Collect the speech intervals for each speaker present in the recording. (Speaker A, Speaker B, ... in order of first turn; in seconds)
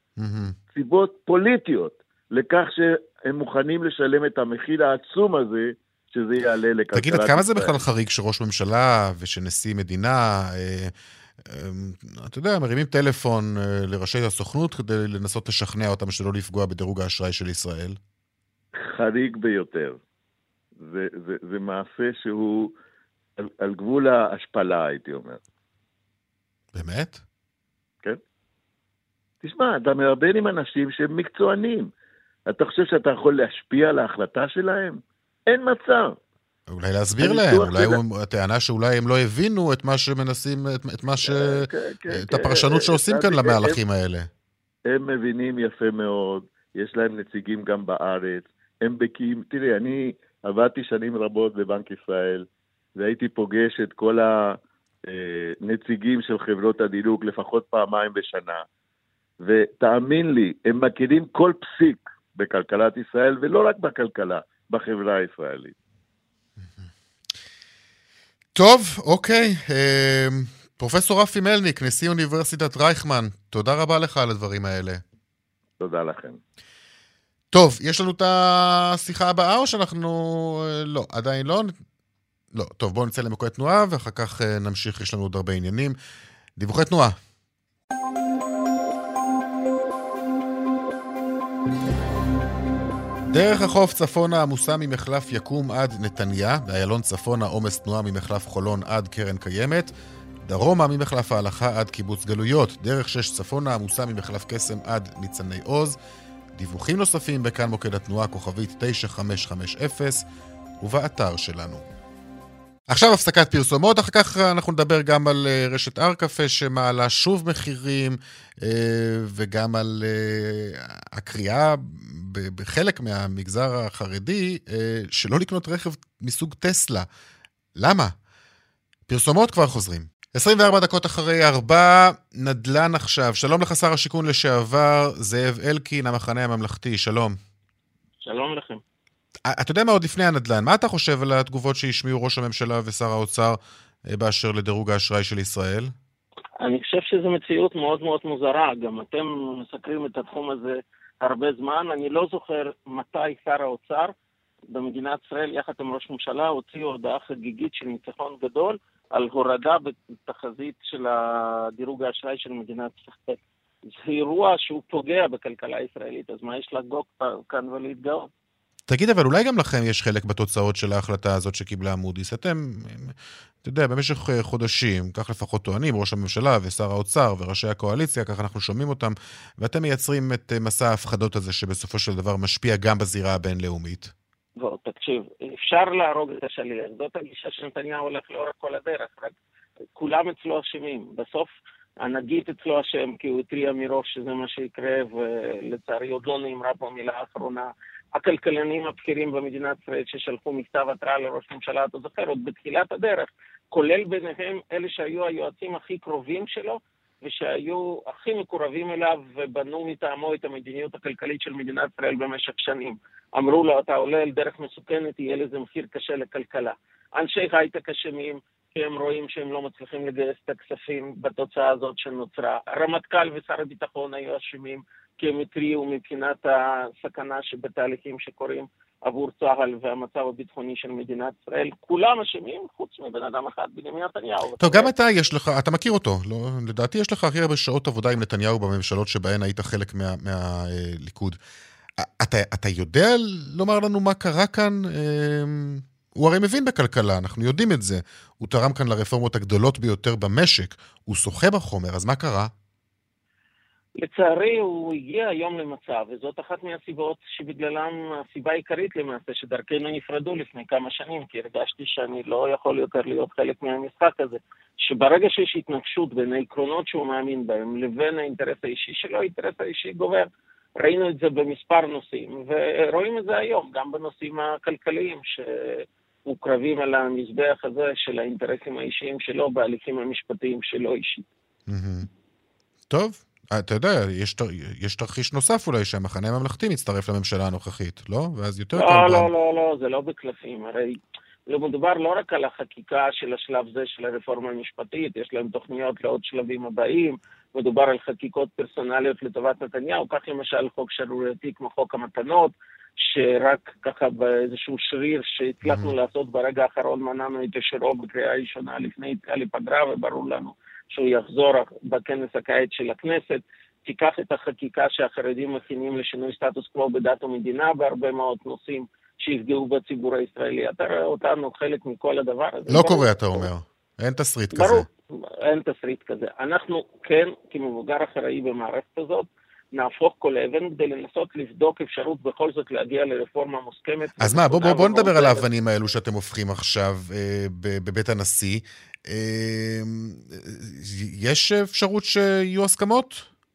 Speaker A: 0.2-0.6, 7.0-18.0, 26.7-27.2, 36.7-44.3, 68.5-75.0, 77.5-81.7, 82.5-86.0, 86.6-87.2, 93.3-99.9, 100.4-106.0, 106.5-110.2, 110.8-111.8, 112.9-127.1, 127.8-128.1, 129.1-137.4, 139.5-145.9, 168.9-184.1, 234.6-241.4, 242.0-252.5, 281.7-282.1, 282.9-289.3, 305.6-305.9, 322.7-324.9, 334.2-343.3
Speaker B: 0.7-7.8, 18.8-20.0, 20.8-22.7, 23.4-25.4, 29.4-31.9, 32.5-36.2, 37.2-38.0, 41.3-43.8, 44.9-58.6, 59.4-65.8, 75.8-76.4
Speaker C: 138.2-138.8, 146.6-154.1, 154.7-168.3, 184.6-189.3, 189.9-234.9, 254.0-270.3, 270.8-281.3, 288.8-323.5, 324.6-324.9, 325.4-335.5